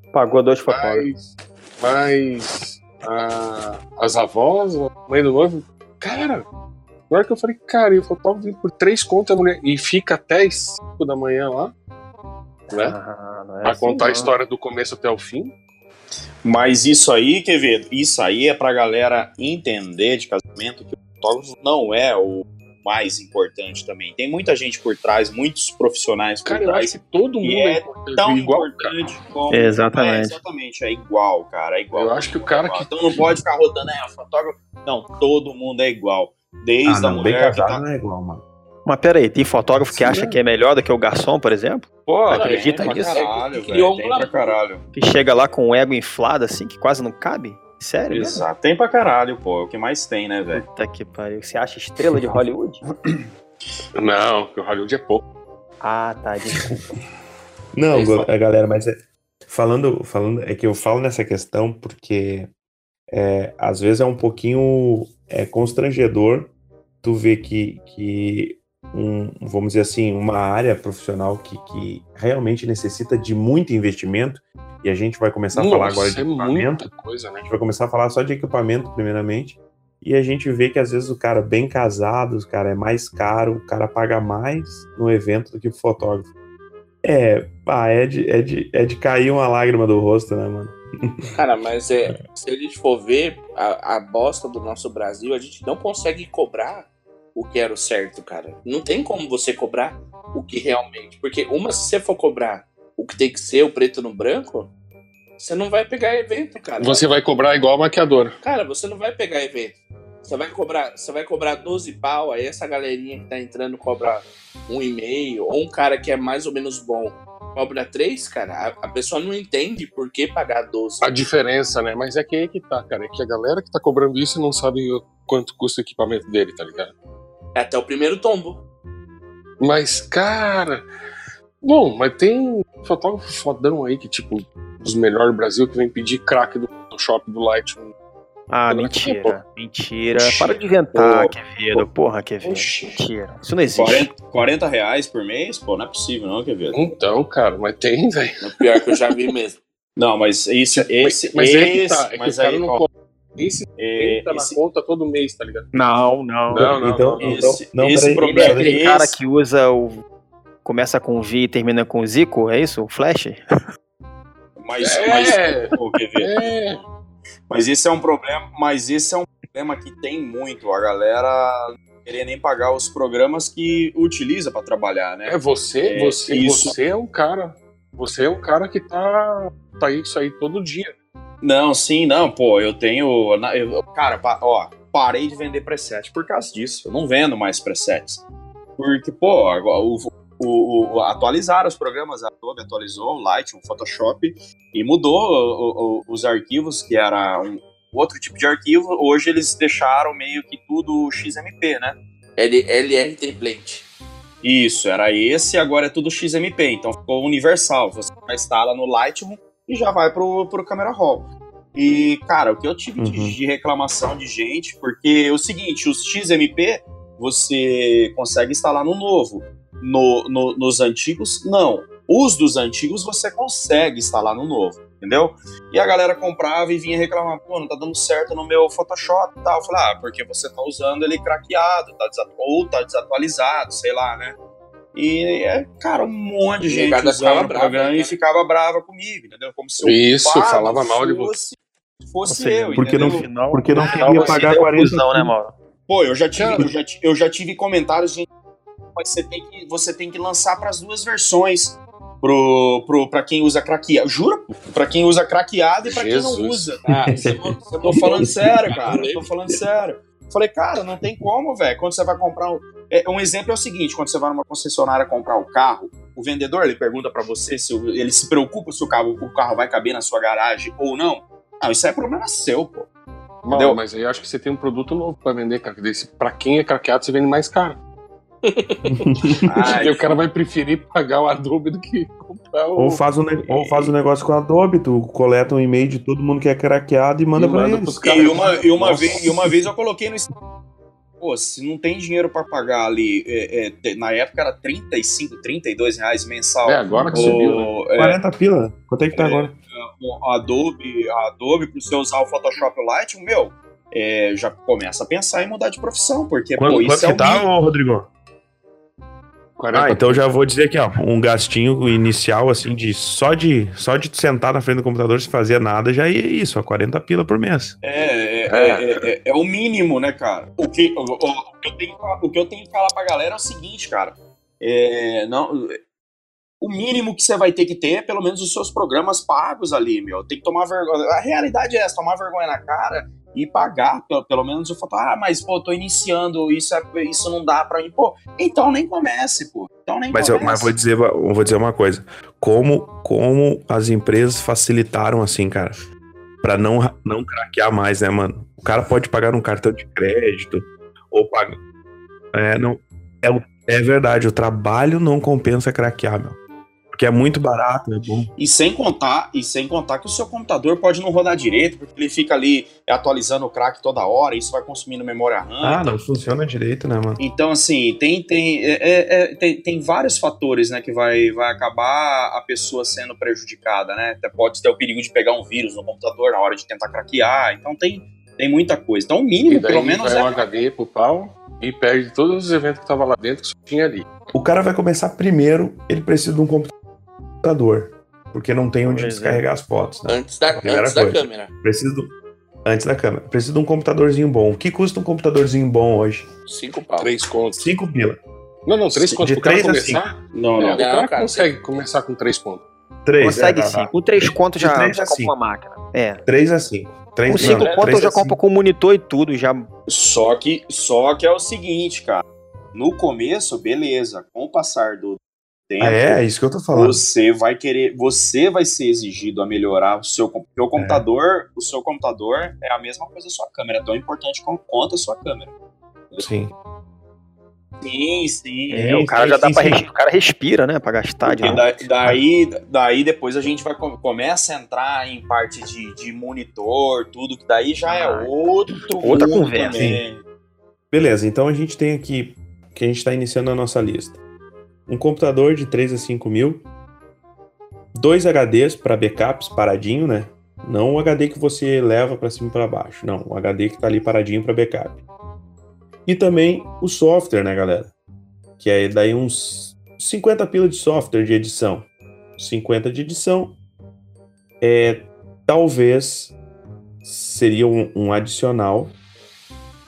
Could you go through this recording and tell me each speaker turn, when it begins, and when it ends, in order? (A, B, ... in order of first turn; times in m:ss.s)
0:00.1-0:01.1 A
0:00.6-0:06.4 B
0:07.1-0:11.7 B
0:12.7-0:14.3 A
0:12.7-0:12.9 B
0:13.6-0:15.5 B
0:16.4-0:37.8 C
0:26.4-0:28.9 B
0:29.5-0:30.4 A
0:31.9-0:33.2 B
0:36.8-0:38.4 D
0:38.8-0:43.2 A
0:39.8-0:40.4 B
0:42.0-0:44.8 C
0:42.3-0:44.5 E
0:44.9-0:48.4 A
0:48.1-0:50.6 C
0:50.5-0:52.8 A
0:54.0-0:55.2 B
0:55.8-0:56.8 A
0:57.7-0:59.0 D
0:57.9-0:58.3 E
0:59.5-1:02.5 D
1:03.1-1:06.5 D
1:07.0-1:16.9 D
1:15.5-1:17.5 B
1:17.4-1:26.3 D
1:27.0-1:31.3 D
1:31.3-1:44.7 E
1:45.4-1:47.0 E
1:46.8-1:48.4 B
1:48.4-2:01.1 E
2:01.0-2:06.9 B
2:07.5-2:08.6 E
2:09.6-2:10.8 B
2:11.6-2:17.9 B
2:18.5-2:24.1 A
2:18.7-2:19.4 B
2:20.2-2:21.3 C
2:22.4-2:23.1 B
2:23.7-2:26.9 C
2:26.7-2:28.5 B
2:28.5-2:29.6 E
2:30.0-2:32.8 C
2:30.8-2:35.7 B
2:33.8-2:34.6 C
2:35.7-2:36.8 A
2:36.5-2:37.4 B
2:36.5-2:38.7 D
2:37.2-2:39.2 C
2:38.3-2:40.0 A
2:40.6-2:43.4 A
2:44.6-2:46.3 C
2:44.8-2:46.8 B
2:47.5-2:56.7 C
2:55.2-3:00.9 B
3:01.4-3:08.2 C
3:08.8-3:22.0 C
3:22.4-3:23.8 E
3:24.4-3:54.4 C
3:33.0-3:33.4 D
3:54.9-4:03.3 C
3:56.6-3:58.2 E
3:59.8-4:01.4 B
4:02.3-4:05.6 A
4:02.7-4:05.3 D
4:03.9-4:04.4 C
4:05.9-4:08.3 C
4:06.3-4:06.6 B
4:08.9-4:16.8 C
4:15.8-4:16.7 B
4:16.9-4:19.3 E
4:17.1-4:17.6 D
4:17.7-4:32.9 C
4:18.2-4:18.8 D
4:33.4-4:37.8 B
4:33.5-4:33.8 C
4:38.4-4:38.8 E
4:38.8-4:39.5 D
4:39.4-4:40.1 C
4:39.6-4:43.0 B
4:42.8-4:48.1 D
4:43.5-4:43.9 B
4:47.3-4:49.3 B
4:48.0-4:50.3 C
4:51.2-4:58.2 C
4:56.6-4:57.7 B
4:57.0-4:57.4 D
4:58.0-4:59.5 D
4:59.1-5:07.4 C
5:06.6-5:08.1 D
5:09.6-5:10.2 B
5:09.7-5:17.8 D
5:17.8-5:25.8 C
5:18.5-5:19.0 B
5:26.6-5:40.7 C
5:40.1-5:45.8 D
5:46.4-5:51.6 D
5:52.3-5:56.4 D
5:56.9-5:58.3 D
5:58.4-6:05.8 C
6:05.6-6:07.2 D
6:07.2-6:20.6 C
6:19.5-6:24.1 B
6:24.3-6:26.7 D
6:27.4-6:32.1 D
6:28.8-6:29.4 A
6:30.1-6:31.5 E
6:32.6-6:36.3 D
6:36.5-6:37.1 E
6:37.0-6:37.7 B
6:37.5-6:38.2 D
6:38.6-6:42.6 B
6:39.2-6:40.0 D
6:40.3-6:40.8 C
6:40.7-6:41.5 E
6:43.0-6:45.3 D
6:43.2-6:46.2 A
6:46.2-6:48.4 D
6:47.2-6:49.7 A
6:47.4-6:47.7 B
6:49.9-6:52.2 C
6:52.7-6:56.2 C
6:55.8-6:57.0 D
6:56.7-7:05.5 C
7:00.8-7:01.0 D
7:06.2-7:06.5 D
7:07.8-7:09.0 C
7:08.7-7:09.8 D
7:08.7-7:11.7 A
7:11.2-7:20.2 C
7:17.9-7:18.3 A
7:19.0-7:20.0 A
7:19.7-7:20.0 D
7:20.9-7:24.2 D
7:24.9-7:26.6 D
7:27.9-7:35.0 D
7:36.0-7:37.9 D
7:38.6-7:43.6 D
7:44.6-7:46.3 D
7:47.0-7:49.0 D